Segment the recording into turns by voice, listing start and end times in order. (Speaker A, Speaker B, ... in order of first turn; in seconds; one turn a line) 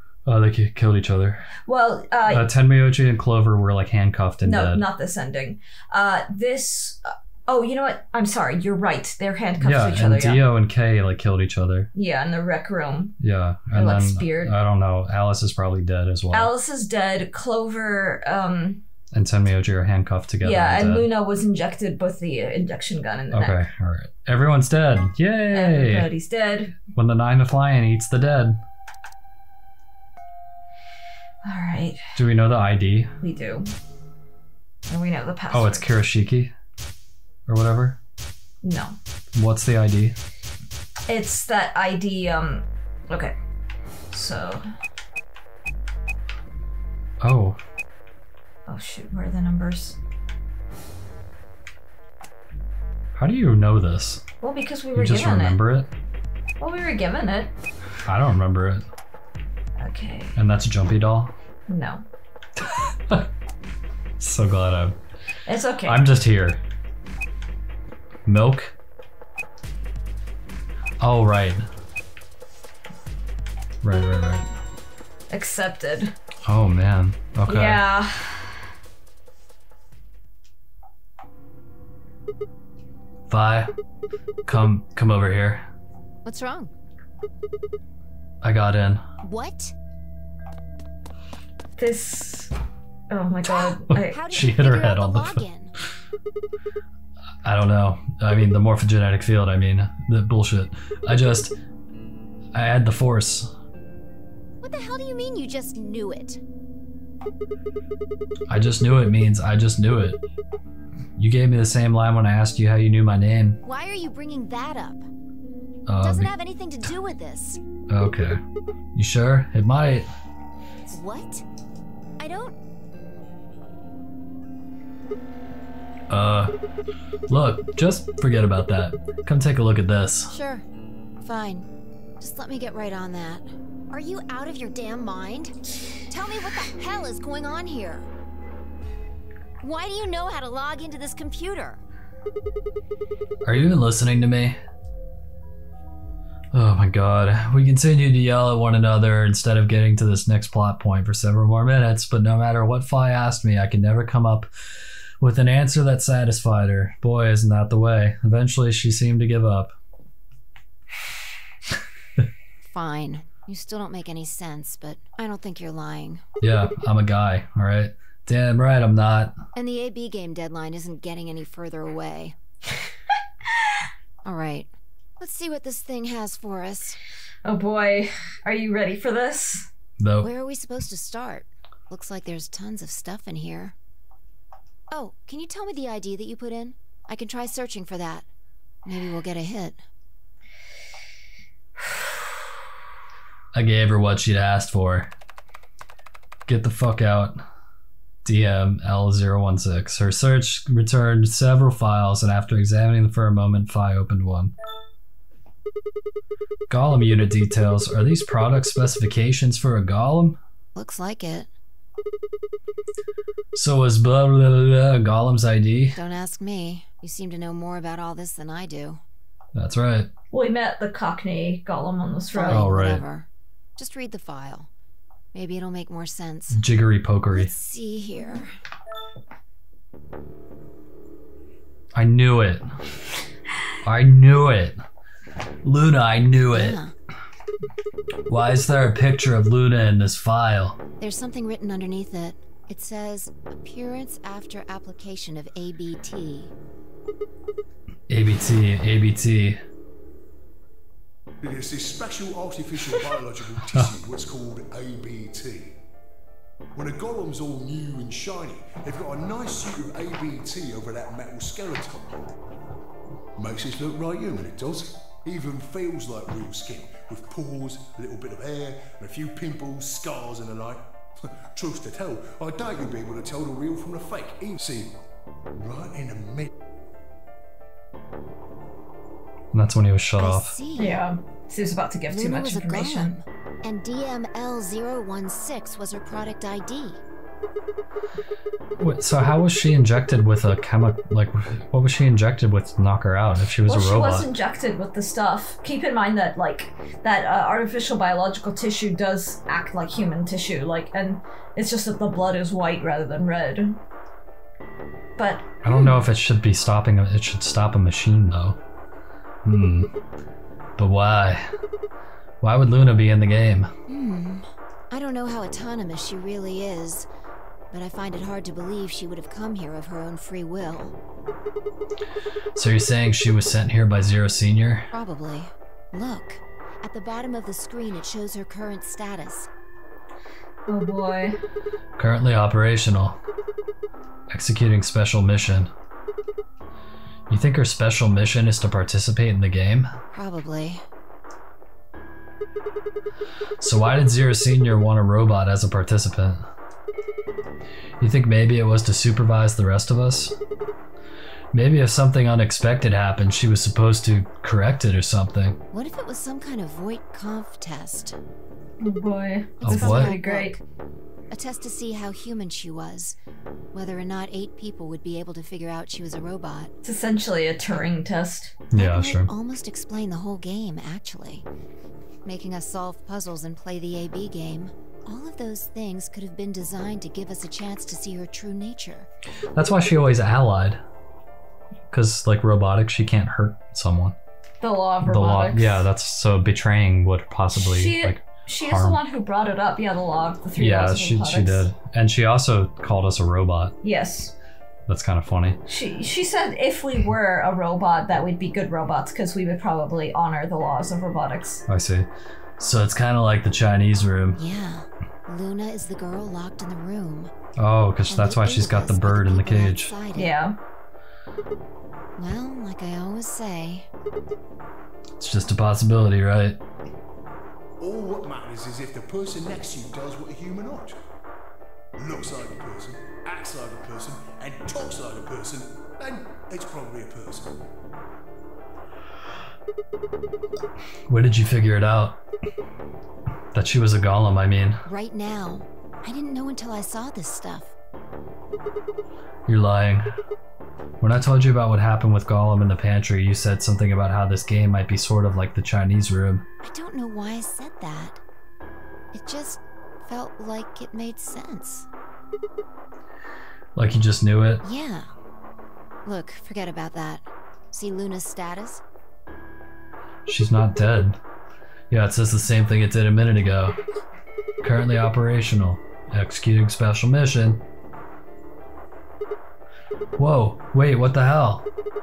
Speaker A: 0.3-1.4
Speaker B: 1.7-2.5
Speaker A: 2.3-4.8
Speaker B: 4.4-10.4
Speaker A: 9.6-11.9
Speaker B: 11.9-13.2
Speaker A: 13.2-16.5
Speaker B: 13.7-14.5
Speaker B: 16.3-18.8
Speaker A: 19.1-21.1
Speaker B: 20.4-23.6
Speaker A: 23.3-26.1
Speaker B: 25.5-26.8
Speaker A: 26.9-28.6
Speaker B: 31.4-32.0
Speaker A: 32.2-33.1
Speaker B: 33.2-33.7
Speaker B: 34.9-35.9
Speaker A: 35.5-36.5
Speaker A: 37.5-38.0
Speaker B: 38.6-39.0
Speaker A: 39.4-40.2
Speaker B: 41.1-43.4
Speaker B: 44.1-44.6
Speaker A: 47.2-47.6
Speaker B: 48.7-50.0
Speaker A: 53.2-54.2
Speaker B: 54.4-55.6
Speaker A: 54.9-55.9
Speaker B: 56.6-57.5
Speaker A: 58.1-58.8
Speaker B: 59.8-60.4
Speaker A: 60.4-61.3
Speaker B: 61.7-62.0
Speaker A: 62.6-63.3
Speaker A: 64.2-65.0
Speaker B: 65.5-66.0
Speaker A: 65.9-66.6
Speaker A: 68.3-68.7
Speaker A: 71.0-71.7
Speaker A: 73.8-74.5
Speaker B: 75.3-76.1
Speaker A: 76.5-77.8
Speaker B: 77.5-78.5
Speaker A: 83.3-83.7
Speaker A: 84.5-85.7
Speaker C: 86.2-86.7
Speaker A: 88.4-89.0
Speaker C: 89.2-89.8
Speaker B: 91.8-92.5
Speaker B: 93.1-94.2
Speaker C: 93.4-95.7
Speaker A: 94.2-95.4
Speaker A: 97.4-101.5
Speaker A: 102.5-103.5
Speaker C: 104.6-106.4
Speaker A: 108.5-110.2
Speaker A: 111.2-113.6
Speaker C: 113.6-115.1
Speaker A: 115.9-116.3
Speaker C: 116.0-117.6
Speaker A: 117.9-118.4
Speaker A: 119.0-120.1
Speaker C: 120.9-121.4
Speaker C: 122.2-122.5
Speaker A: 126.1-126.5
Speaker A: 127.3-130.3
Speaker C: 130.3-130.7
Speaker C: 131.2-135.6
Speaker C: 136.1-138.1
Speaker C: 139.6-141.8
Speaker A: 143.4-144.6
Speaker A: 146.5-154.5
Speaker A: 155.2-159.7
Speaker C: 162.6-166.2
Speaker A: 166.4-169.4
Speaker C: 169.6-172.4
Speaker C: 174.2-177.0
Speaker B: 177.4-179.7
Speaker A: 180.0-180.3
Speaker C: 180.2-183.8
Speaker C: 184.9-188.3
Speaker C: 188.8-189.8
Speaker A: 193.5-195.1
Speaker A: 196.5-197.4
Speaker A: 198.2-204.5
Speaker A: 206.7-210.4
Speaker C: 210.8-211.5
Speaker A: 213.6-216.0
Speaker C: 215.9-219.0
Speaker A: 219.6-220.1
Speaker B: 220.3-222.7
Speaker C: 222.3-224.7
Speaker A: 222.5-223.0
Speaker C: 225.3-226.6
Speaker A: 226.5-227.5
Speaker C: 227.3-228.6
Speaker A: 231.9-232.7
Speaker A: 233.8-234.8
Speaker A: 235.6-236.8
Speaker C: 236.5-236.9
Speaker A: 238.3-240.8
Speaker C: 241.0-246.5
Speaker A: 248.1-249.6
Speaker D: 251.4-255.8
Speaker D: 256.8-262.1
Speaker D: 263.4-274.9
Speaker D: 275.6-276.5
Speaker A: 279.5-280.6
Speaker C: 280.2-281.0
Speaker B: 280.8-283.1
Speaker C: 282.1-287.0
Speaker A: 288.8-294.3
Speaker B: 293.7-303.8
Speaker B: 305.2-306.0
Speaker A: 305.6-308.6
Speaker A: 309.4-309.9
Speaker A: 310.8-311.5
Speaker A: 312.4-313.7
Speaker C: 313.9-317.1
Speaker C: 317.7-320.9
Speaker A: 322.6-324.9
Speaker C: 324.9-329.5
Speaker B: 330.7-331.4
Speaker A: 332.0-333.2
Speaker A: 334.3-335.7
Speaker A: 337.3-339.9
Speaker C: 340.1-340.8
Speaker A: 343.6-346.4
Speaker A: 348.0-350.4
Speaker A: 351.5-355.6
Speaker C: 355.7-358.2
Speaker B: 358.8-360.6
Speaker C: 359.6-360.6
Speaker A: 359.6-360.1
Speaker C: 361.3-363.2
Speaker C: 363.7-366.7
Speaker B: 366.8-368.6
Speaker A: 368.7-369.3
Speaker C: 368.8-371.5
Speaker C: 372.2-379.1
Speaker A: 379.6-380.8
Speaker A: 381.9-384.2
Speaker B: 384.6-385.8
Speaker A: 385.0-389.0
Speaker B: 387.6-391.6
Speaker A: 390.6-393.8
Speaker B: 393.8-394.3
Speaker A: 394.9-395.6
Speaker B: 395.7-401.6
Speaker A: 401.7-404.4
Speaker C: 404.4-407.3
Speaker A: 407.6-409.9
Speaker C: 408.1-410.4
Speaker B: 410.1-410.6
Speaker C: 412.2-413.9
Speaker A: 415.2-416.6
Speaker D: 417.8-421.0
Speaker D: 422.0-427.5
Speaker A: 431.1-432.2
Speaker A: 433.5-434.8
Speaker C: 434.9-437.7
Speaker A: 439.5-440.1
Speaker A: 441.0-446.4
Speaker C: 446.6-448.2
Speaker C: 449.1-451.9
Speaker A: 453.8-454.6
Speaker C: 454.6-455.1
Speaker C: 456.1-458.8
Speaker A: 460.3-461.2
Speaker A: 461.9-463.8
Speaker A: 464.6-467.6
Speaker A: 470.2-471.7